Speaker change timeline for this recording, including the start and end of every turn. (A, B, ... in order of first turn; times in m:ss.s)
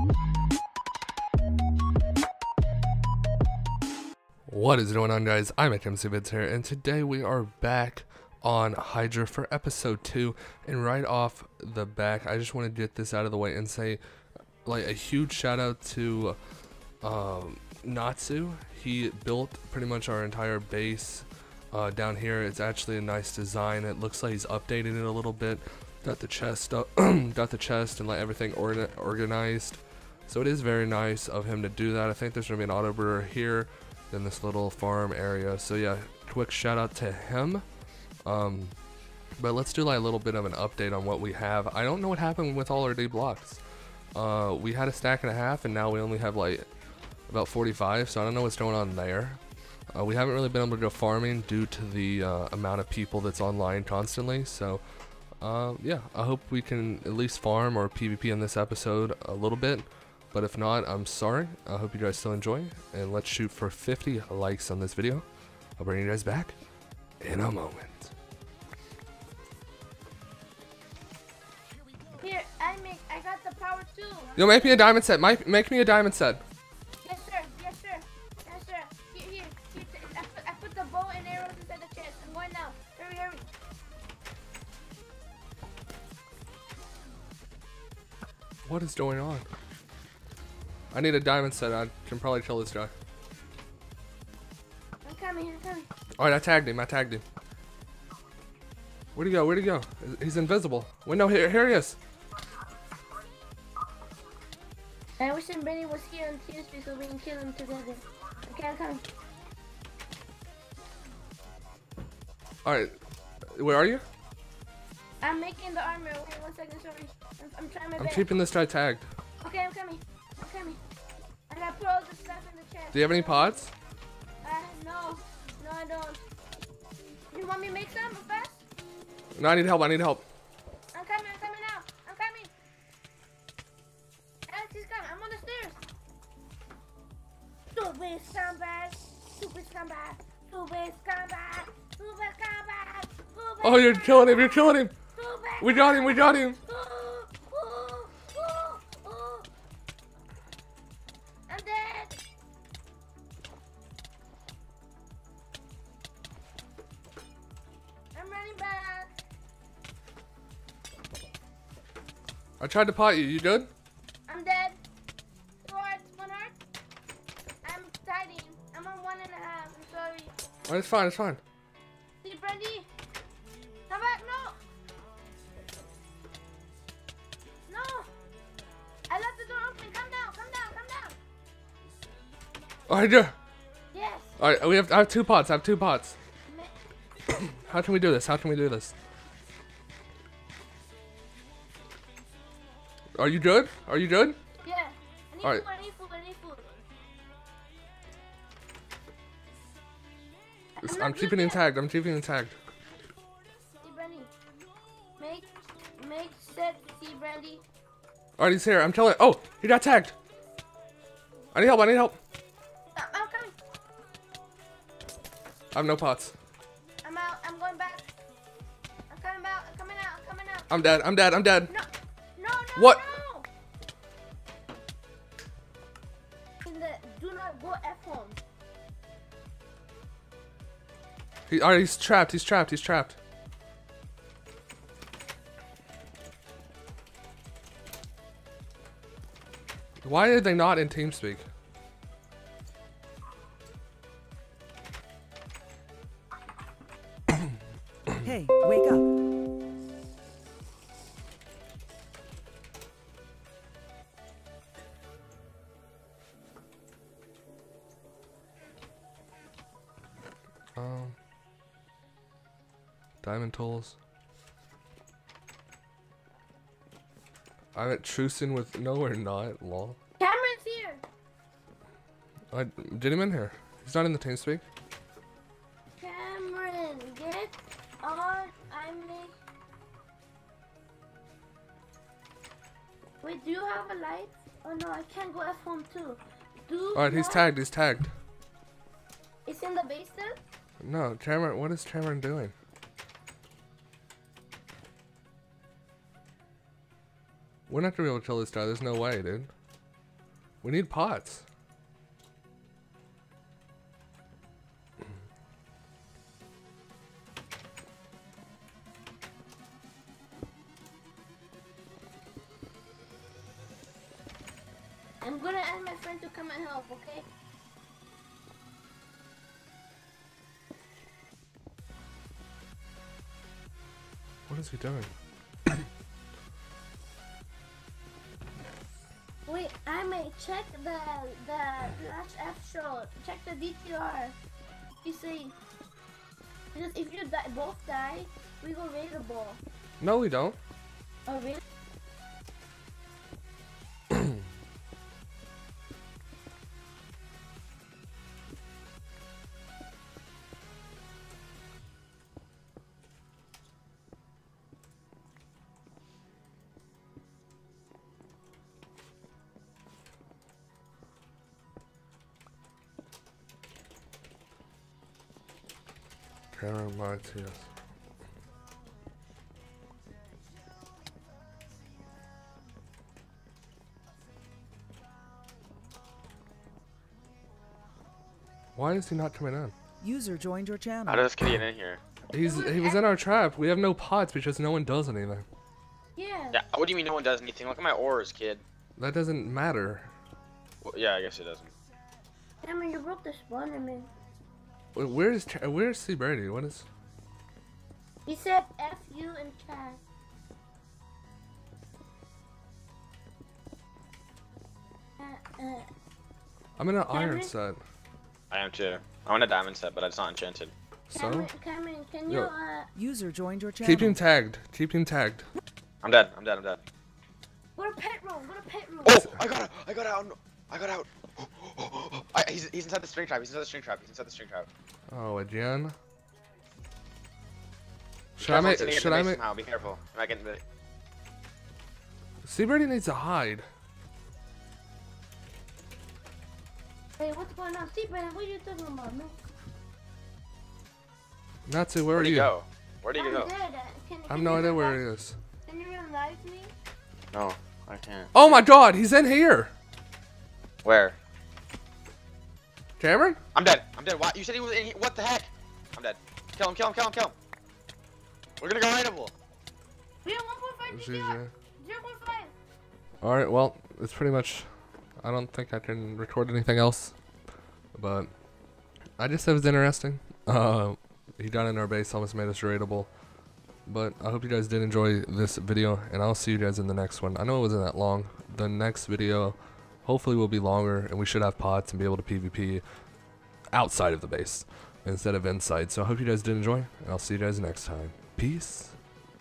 0:04.5-0:14.0 A
0:14.6-0:16.4 A
0:17.0-0:37.6 A
0:38.2-0:38.8 A
0:39.4-0:43.6 A
0:44.2-0:46.7 A
0:47.3-0:49.4 A
0:49.9-0:54.8 A
0:55.4-1:05.3 A
1:05.8-1:06.6 A
1:07.2-1:08.1 A
1:12.2-1:14.4 B
1:14.4-1:16.4 A
1:17.0-1:23.4 B
1:28.6-1:29.5 A
1:30.9-1:32.9 A
1:35.0-1:35.9 B
1:36.2-1:37.2 A
1:39.2-1:42.0 A
1:45.2-1:49.0 B
1:52.6-1:52.9 A
1:53.6-1:54.0 A
1:55.2-1:58.3 B
1:58.0-1:59.1 A
1:59.4-2:00.8 B
2:01.5-2:03.6 B
2:02.9-2:03.7 A
2:04.4-2:06.2 B
2:07.3-2:08.6 B
2:09.4-2:10.2 A
2:10.9-2:12.5 B
2:14.5-2:15.8 B
2:17.7-2:29.5 B
2:23.6-2:25.0 A
2:25.6-2:26.6 A
2:31.5-2:32.2 B
2:38.1-2:39.1 B
2:42.6-2:43.7 A
2:44.3-2:44.8 B
2:45.6-2:46.6 B
2:47.6-2:50.3 B
2:50.7-2:51.4 A
2:52.2-2:52.9 B
2:53.9-2:54.6 B
2:57.7-2:58.1 B
2:59.1-3:01.2 B
3:02.9-3:03.4 A
3:03.9-3:04.4 B
3:04.4-3:06.2 A
3:06.5-3:06.7 B
3:07.3-3:09.0 A
3:13.2-3:14.4 A
3:14.6-3:16.8 B
3:20.8-3:21.6 B
3:20.8-3:22.6 A
3:23.8-3:24.3 B
3:25.2-3:27.6 B
3:28.4-3:30.2 A
3:31.5-3:32.2 A
3:32.9-3:33.5 B
3:35.7-3:36.3 A
3:37.0-3:38.1 B
3:39.1-3:40.7 B
3:40.7-3:41.7 A
3:41.7-3:43.5 B
3:42.8-3:43.0 A
3:46.6-3:48.4 B
3:51.5-3:53.2 A
4:00.0-4:01.4 A
4:08.1-4:09.0 C
4:20.8-4:21.2 A
4:23.2-4:24.0 A
4:27.8-4:30.0 A
4:30.2-4:31.0 B
4:32.5-4:34.6 A
4:35.9-4:39.4 B
4:43.2-4:47.5 B
4:47.0-4:48.1 A
4:49.4-4:50.4 B
4:50.8-4:52.5 A
4:57.7-4:59.5 A
5:00.6-5:01.4 A
5:15.2-5:17.3 B
5:24.5-5:25.1 A
5:29.5-5:34.4 B
5:35.0-5:35.5 B
5:36.7-5:39.6 B
5:40.0-5:40.6 A
5:41.3-5:41.6 B
6:06.5-6:07.7 A
6:18.8-6:19.7 A
6:20.0-6:21.4 C
6:21.1-6:22.0 D
6:22.3-6:25.4 A
6:22.3-6:23.0 B
6:26.2-6:26.6 B
6:26.5-6:28.6 D
6:29.0-6:30.1 A
6:30.8-6:31.7 D
6:32.6-6:34.1 B
6:35.0-6:36.9 A
6:38.3-6:40.0 B
6:45.2-6:45.9 B
6:46.8-6:47.8 A
6:47.1-6:47.5 B
6:48.5-6:50.7 D
6:51.1-6:51.5 A
6:51.2-6:52.9 B
6:52.3-6:52.5 A
6:53.0-6:54.2 C
6:53.8-6:55.5 A
6:56.0-6:56.8 D
6:57.8-6:59.2 B
6:59.0-7:04.7 D
7:05.1-7:06.0 A
7:08.4-7:09.4 A
7:08.4-7:10.6 D
7:12.4-7:13.7 A
7:17.2-7:19.4 B
7:21.7-7:22.5 A
7:22.2-7:23.5 D
7:23.2-7:25.0 B
7:24.3-7:25.4 A
7:25.7-7:26.7 B
7:27.3-7:28.6 D
7:28.3-7:29.7 A
7:30.8-7:31.2 D
7:33.0-7:33.4 A
7:33.5-7:37.4 D
7:38.6-7:39.3 D
7:40.2-7:42.5 B
7:40.9-7:41.5 A
7:43.2-7:44.7 A
7:45.2-7:47.2 A
7:47.9-7:48.3 A
7:49.2-7:53.1 A
7:53.9-8:02.8 A
8:03.7-8:09.0 A